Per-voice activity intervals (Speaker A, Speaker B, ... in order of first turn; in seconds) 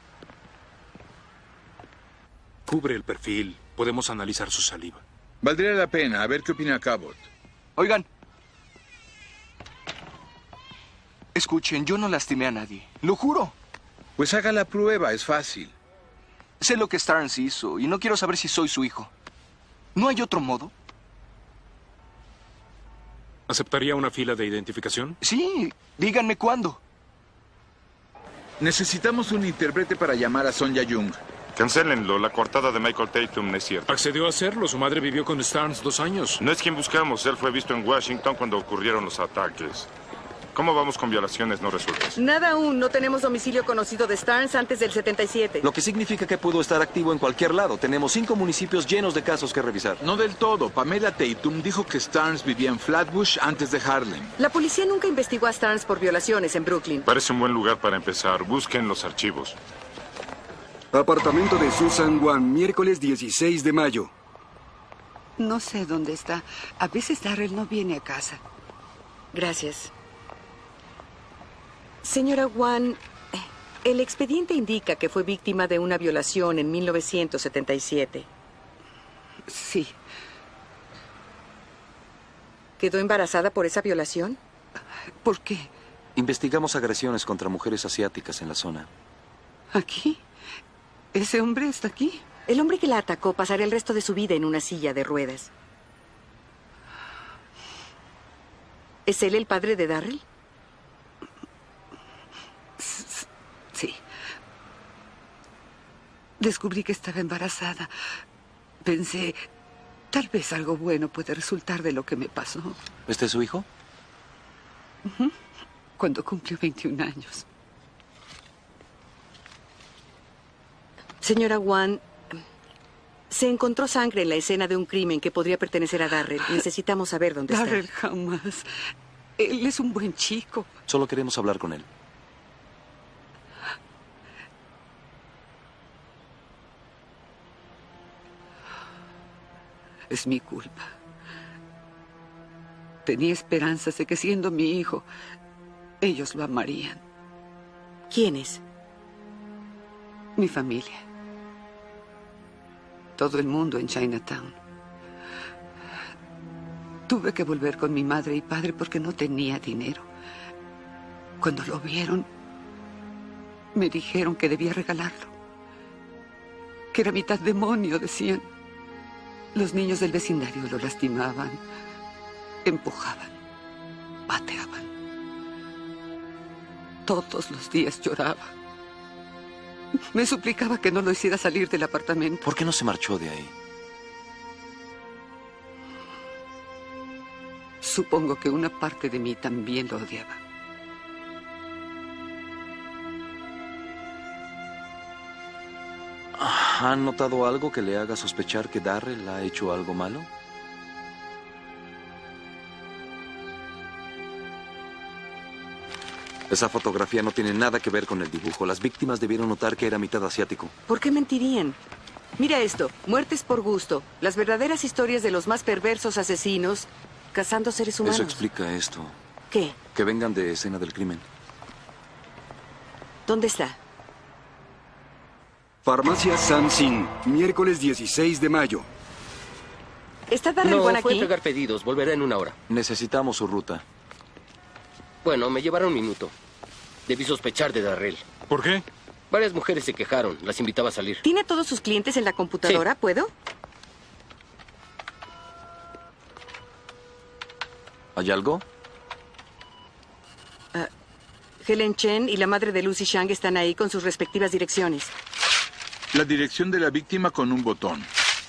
Speaker A: 2.7-5.0, 23.5-25.1, 33.9-36.4, 238.5-238.8
Speaker B: 5.4-7.3, 14.2-15.7, 28.6-31.2, 50.0-54.3, 256.1-258.1
Speaker C: 7.8-8.1, 11.3-13.5, 16.6-19.1, 19.9-20.7, 25.2-26.8
Speaker D: 31.6-33.9, 36.4-39.9, 40.5-42.2, 57.0-59.6
Speaker E: 42.2-45.6, 54.4-57.1, 69.3-69.9, 72.0-78.3, 82.8-84.4, 92.5-95.5, 99.0-100.2, 121.2-122.0, 123.3-127.8, 148.1-148.6, 210.9-211.8, 212.4-218.4, 219.5-219.8, 223.3-223.8, 230.3-231.3, 241.2-243.3, 251.6-255.1
Speaker F: 45.6-50.0, 86.2-88.9, 113.1-113.7, 130.9-131.9, 182.4-183.5, 196.3-200.3, 206.5-210.7, 218.0-219.2, 219.9-221.2, 232.7-233.8, 248.1-248.6
Speaker G: 60.9-64.1, 225.8-228.8
Speaker H: 65.4-68.4, 79.5-80.0, 85.2-85.7, 89.7-90.2, 91.1-92.2, 102.8-104.0, 106.4-107.9, 108.8-109.4, 110.1-112.8, 115.0-115.3, 116.0-117.4, 127.5-128.7, 129.4-130.7, 140.1-140.9, 143.1-145.1, 146.0-147.0, 150.3-151.0, 153.2-154.6, 157.1-160.1, 161.4-162.3, 163.7-165.3, 166.9-168.5, 169.5-171.6, 172.6-173.3, 174.3-174.9, 177.1-178.5, 180.1-182.4, 187.8-190.4
Speaker I: 230.6-232.6, 235.2-236.3, 237.1-238.2, 239.3-241.2